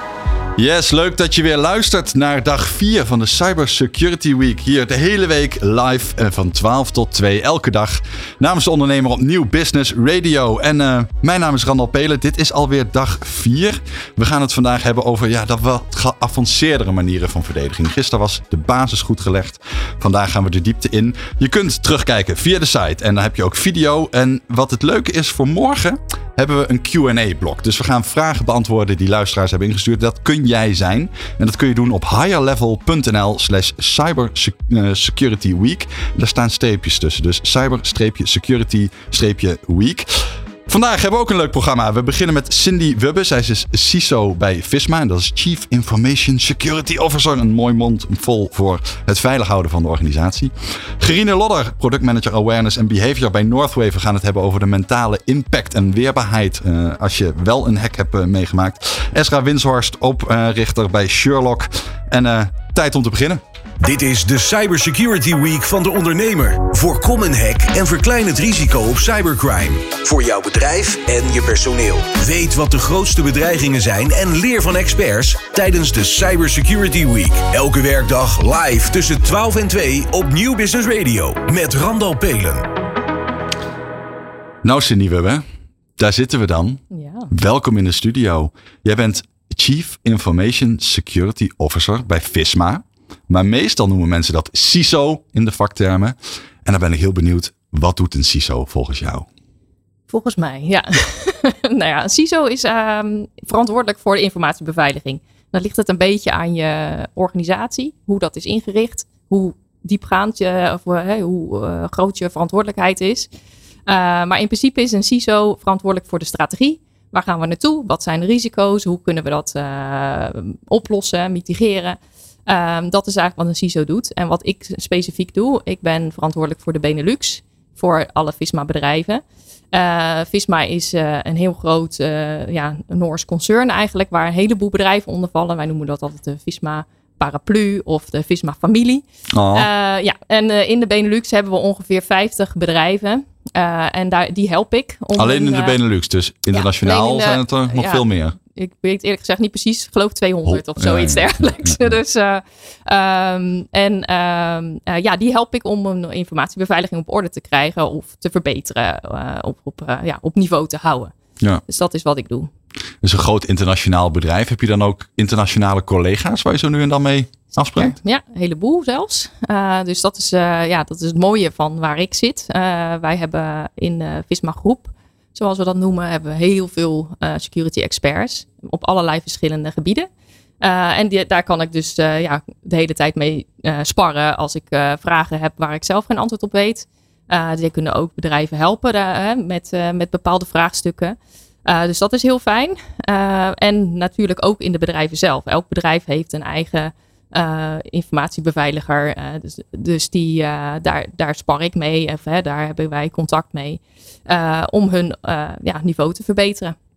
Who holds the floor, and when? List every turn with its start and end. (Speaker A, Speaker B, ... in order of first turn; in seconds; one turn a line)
Speaker A: 0.6-63.4
Speaker B: 63.8-82.7
Speaker A: 84.6-85.4
Speaker A: 86.0-99.3
Speaker C: 86.9-87.3
Speaker C: 100.1-113.3
Speaker C: 113.9-145.8
Speaker A: 139.3-139.7
Speaker A: 145.2-148.4
Speaker C: 146.5-161.1
Speaker A: 150.5-151.9
Speaker C: 161.7-162.5
Speaker A: 163.0-167.9
Speaker C: 167.6-180.1
Speaker C: 180.6-206.8